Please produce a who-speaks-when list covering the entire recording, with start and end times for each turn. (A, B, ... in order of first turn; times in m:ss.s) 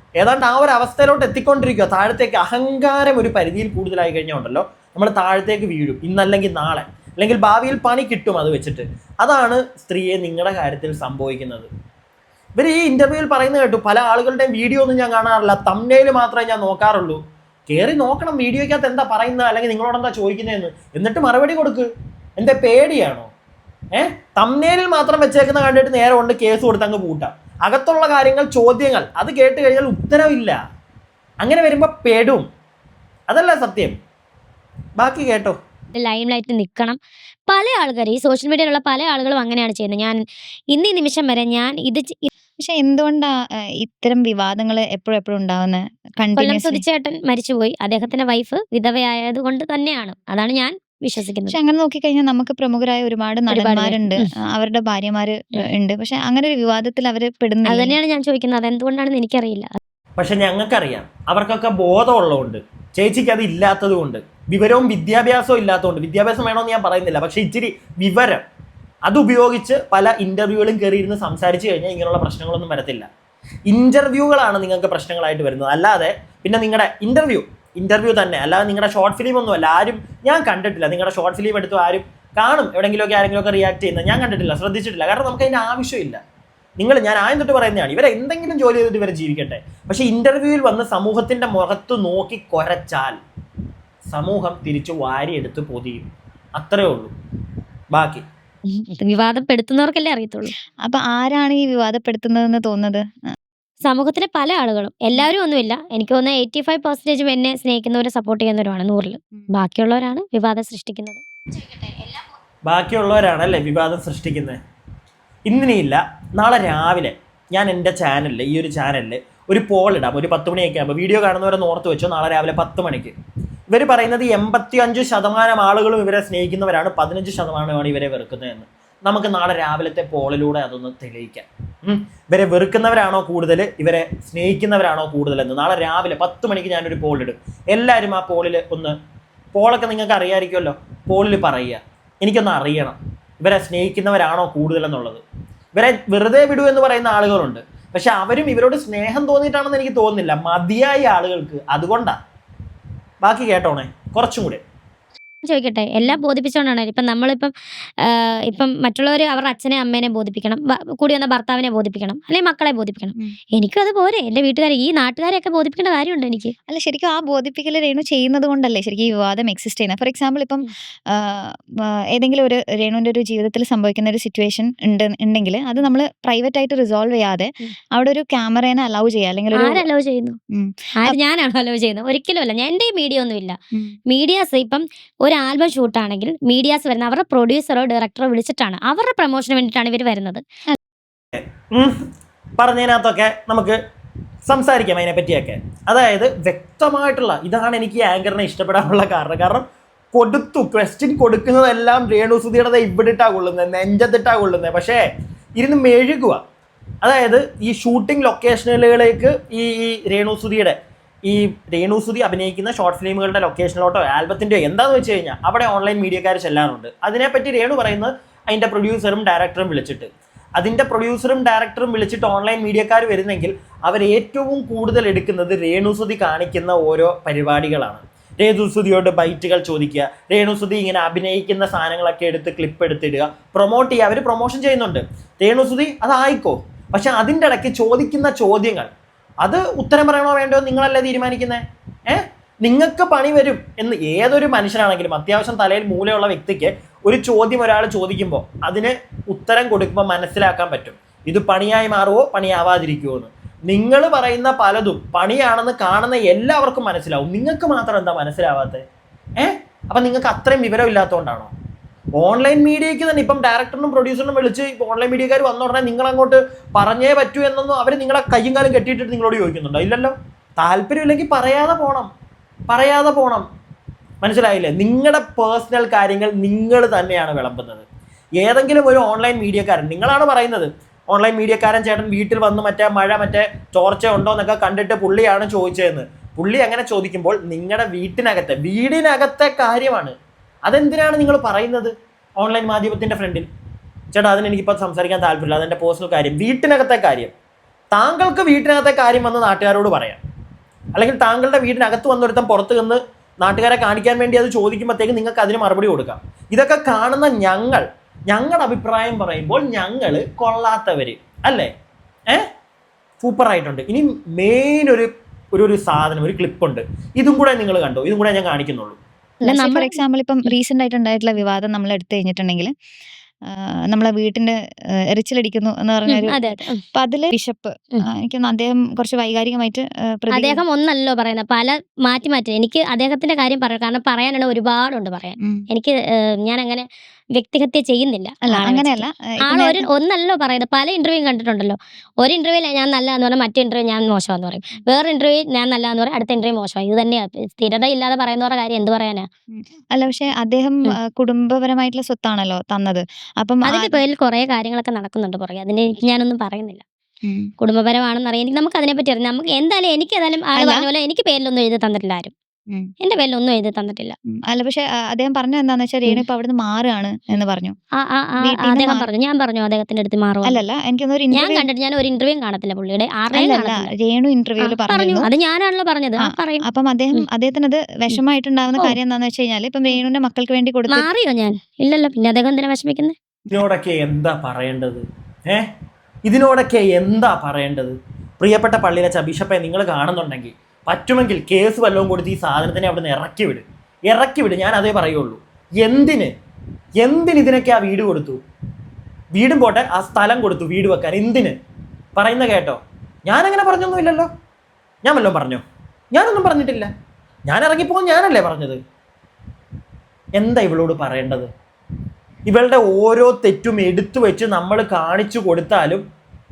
0:00.2-0:11.7 A
0:12.6-0:23.3 A
0:23.9-0:30.6 A
0:31.4-0:32.5 A
0:33.3-0:34.0 A
0:35.0-0:35.6 A
0:35.9-0:40.2 B
0:40.7-0:42.3 B
0:42.6-0:43.3 C
0:43.8-0:46.8 C
0:46.4-0:51.6 B
0:51.5-0:58.0 C
0:53.5-0:54.3 B
0:57.6-0:59.8 B
1:00.2-1:08.4 A
1:09.1-1:13.1 A
1:13.7-1:26.2 A
1:26.8-1:33.2 A
1:34.1-1:37.1 A
1:37.9-1:38.2 A
1:38.8-1:40.5 B
1:40.8-1:43.0 C
1:43.8-1:52.2 B
1:52.7-1:54.6 A
1:55.5-2:03.1 A
2:03.7-2:19.0 A
2:19.5-2:25.2 A
2:25.7-2:32.2 A
2:33.2-2:34.6 A
2:35.4-2:46.5 B
2:46.7-2:51.6 C
2:52.2-2:59.8 C
2:59.5-3:00.4 B
3:00.5-3:01.2 C
3:01.0-3:03.6 B
3:04.1-3:10.4 B
3:11.4-3:11.9 A
3:12.6-3:13.8 A
3:14.5-3:25.0 A
3:25.6-3:26.4 A
3:27.0-3:30.8 A
3:31.3-3:58.9 A
3:59.4-4:18.8 A
4:19.4-4:21.5 A
4:22.2-4:32.1 A
4:32.7-4:33.5 A
4:34.2-4:37.8 A
4:38.4-4:50.1 A
4:50.7-4:53.5 A
4:54.1-4:57.3 A
4:57.9-5:00.2 A
5:01.0-5:11.7 A
5:13.2-5:19.0 A
5:19.4-5:22.7 C
5:19.4-5:20.5 B
5:23.5-5:24.5 C
5:25.1-5:30.6 C
5:26.1-5:26.8 B
5:30.3-5:36.8 B
5:37.4-5:49.3 B
5:38.5-5:39.9 C
5:49.9-5:54.0 C
5:53.7-5:56.8 B
5:57.6-6:02.3 B
6:00.5-6:00.9 C
6:03.0-6:04.2 B
6:04.5-6:07.8 C
6:08.1-6:10.6 B
6:08.4-6:09.1 C
6:10.4-6:11.7 C
6:11.3-6:13.9 B
6:13.3-6:15.3 C
6:14.6-6:17.2 B
6:16.6-6:21.1 C
6:20.9-6:23.1 B
6:23.5-6:25.6 A
6:26.3-6:36.3 A
6:37.0-6:38.4 A
6:39.3-6:41.6 A
6:42.2-6:44.3 A
6:45.0-6:46.9 A
6:47.5-6:48.8 A
6:50.4-6:51.5 A
6:52.5-6:56.0 A